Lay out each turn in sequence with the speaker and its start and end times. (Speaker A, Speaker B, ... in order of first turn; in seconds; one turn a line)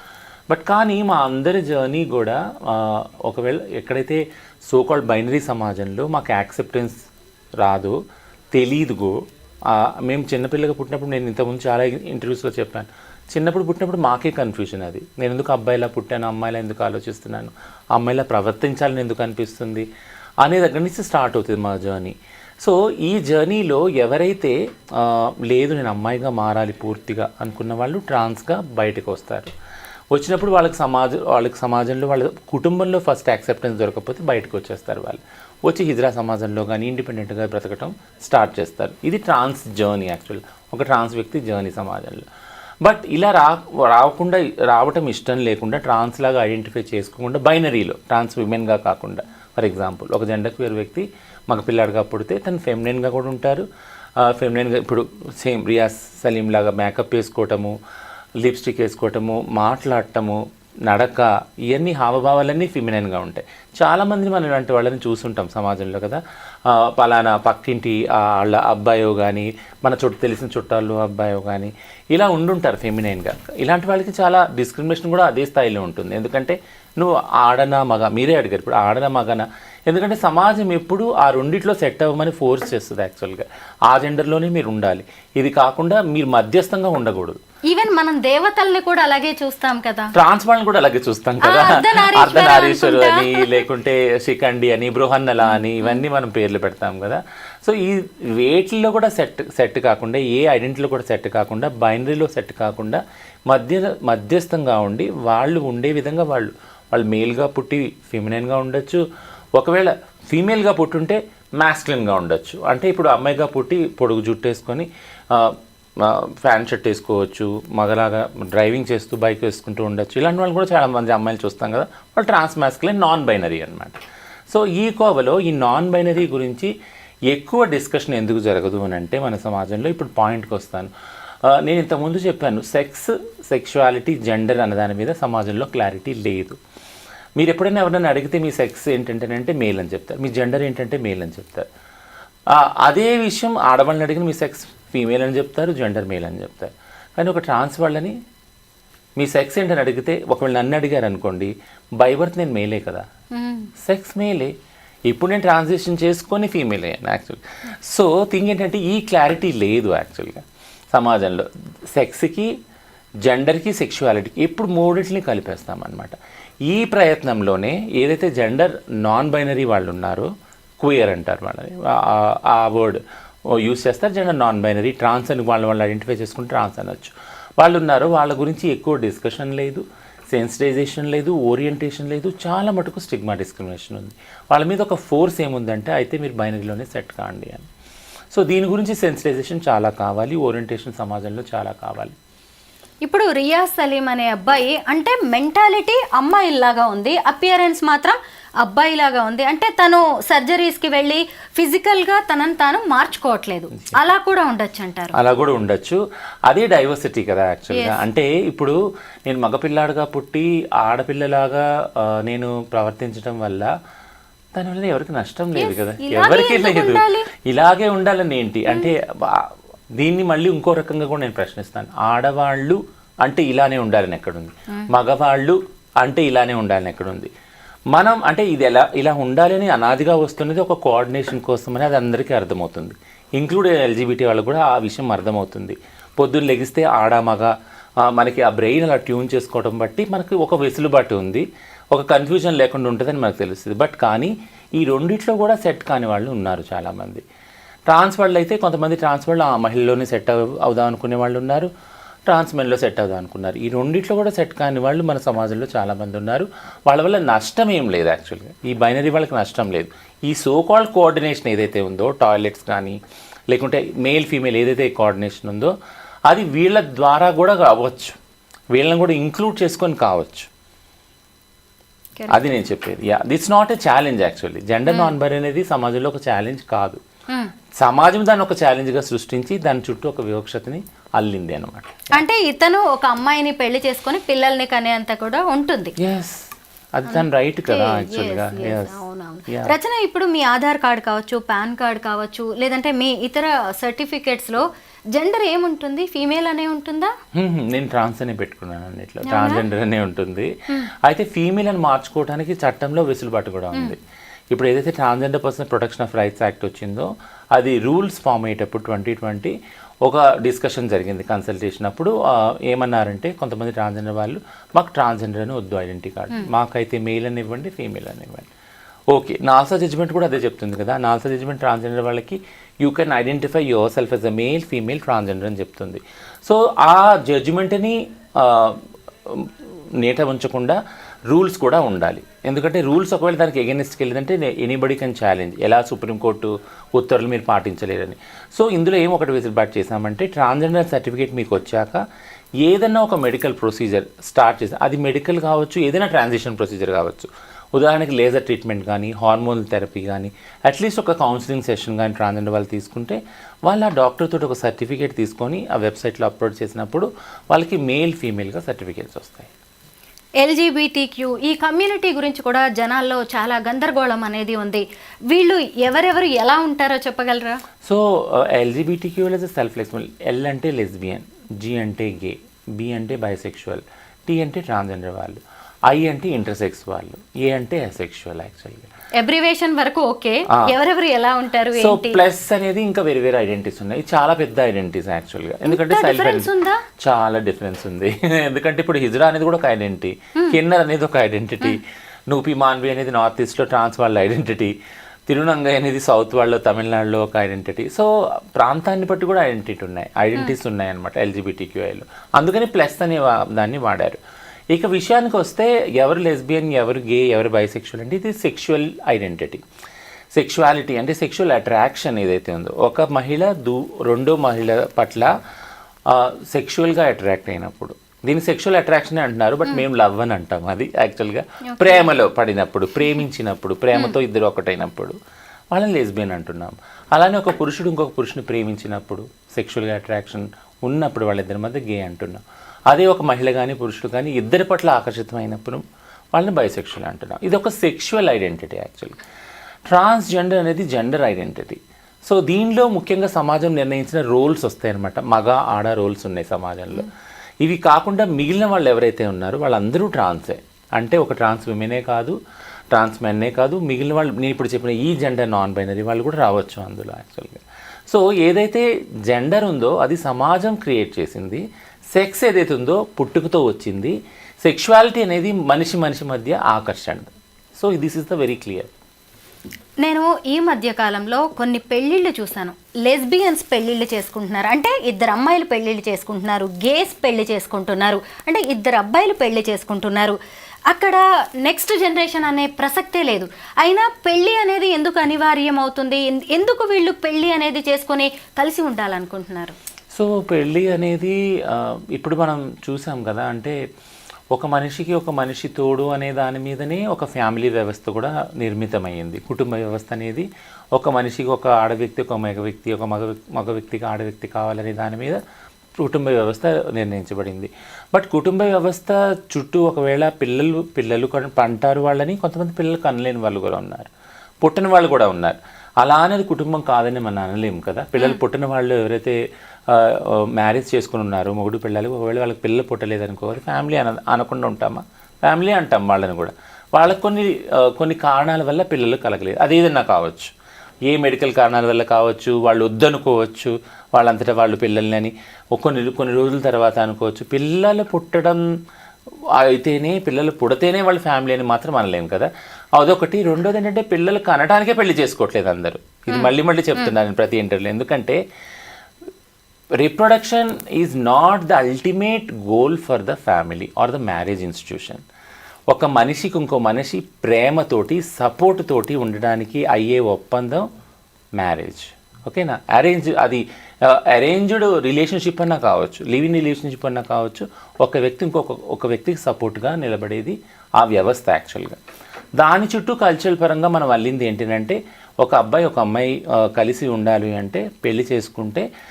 Speaker A: 0.5-7.0
Speaker A: 7.6-8.0
Speaker A: 8.5-19.9
Speaker A: 20.4-29.5
Speaker A: 30.1-42.2
Speaker A: 42.8-53.6
Speaker A: 54.2-57.8
Speaker A: 58.4-87.4
Speaker B: 87.7-90.1
Speaker A: 90.1-109.0
Speaker B: 91.4-93.6
Speaker A: 109.6-126.7
Speaker A: 127.3-130.9
Speaker A: 131.4-136.6
Speaker A: 137.4-141.7
Speaker A: 142.5-148.1
Speaker A: 149.2-153.0
Speaker B: 153.3-153.7
Speaker A: 153.8-154.5
Speaker A: 155.1-162.5
Speaker A: 163.2-166.2
Speaker A: 166.7-170.3
Speaker A: 170.8-173.0
Speaker A: 173.5-187.7
Speaker A: 188.3-192.2
Speaker B: 193.0-205.2
Speaker A: 205.1-213.7
Speaker B: 207.7-208.0
Speaker A: 214.5-227.3
Speaker B: 215.6-217.3
Speaker A: 227.9-247.2
Speaker A: 247.9-251.7
Speaker A: 252.3-263.0
Speaker A: 263.5-265.7
Speaker A: 266.3-268.1
Speaker A: 268.7-270.5
Speaker A: 272.3-277.0
Speaker B: 274.9-275.1
Speaker A: 277.8-282.2
Speaker B: 282.1-285.9
Speaker A: 286.0-289.7
Speaker B: 287.1-297.1
Speaker A: 297.3-300.5
Speaker B: 299.2-299.6
Speaker A: 301.0-304.0
Speaker A: 304.5-318.5
Speaker A: 319.1-330.8
Speaker A: 331.3-342.0
Speaker A: 342.6-359.5
Speaker B: 360.4-367.6
Speaker A: 367.8-378.9
Speaker B: 379.1-382.2
Speaker A: 381.8-386.5
Speaker B: 385.6-386.8
Speaker A: 387.0-394.7
Speaker A: 395.3-404.2
Speaker A: 404.7-409.6
Speaker A: 410.3-415.3
Speaker A: 416.1-425.1
Speaker B: 421.7-422.1
Speaker A: 425.7-439.1
Speaker A: 439.9-447.1
Speaker A: 447.6-452.4
Speaker A: 452.9-468.9
Speaker B: 470.0-480.4
Speaker B: 480.9-489.8
Speaker A: 490.1-493.8
Speaker A: 494.5-505.4
Speaker A: 506.0-514.1
Speaker A: 514.6-530.5
Speaker A: 531.1-538.6
Speaker A: 539.5-548.4
Speaker B: 546.3-547.1
Speaker A: 550.0-555.2
Speaker A: 555.9-560.9
Speaker A: 561.6-572.0
Speaker A: 572.6-578.9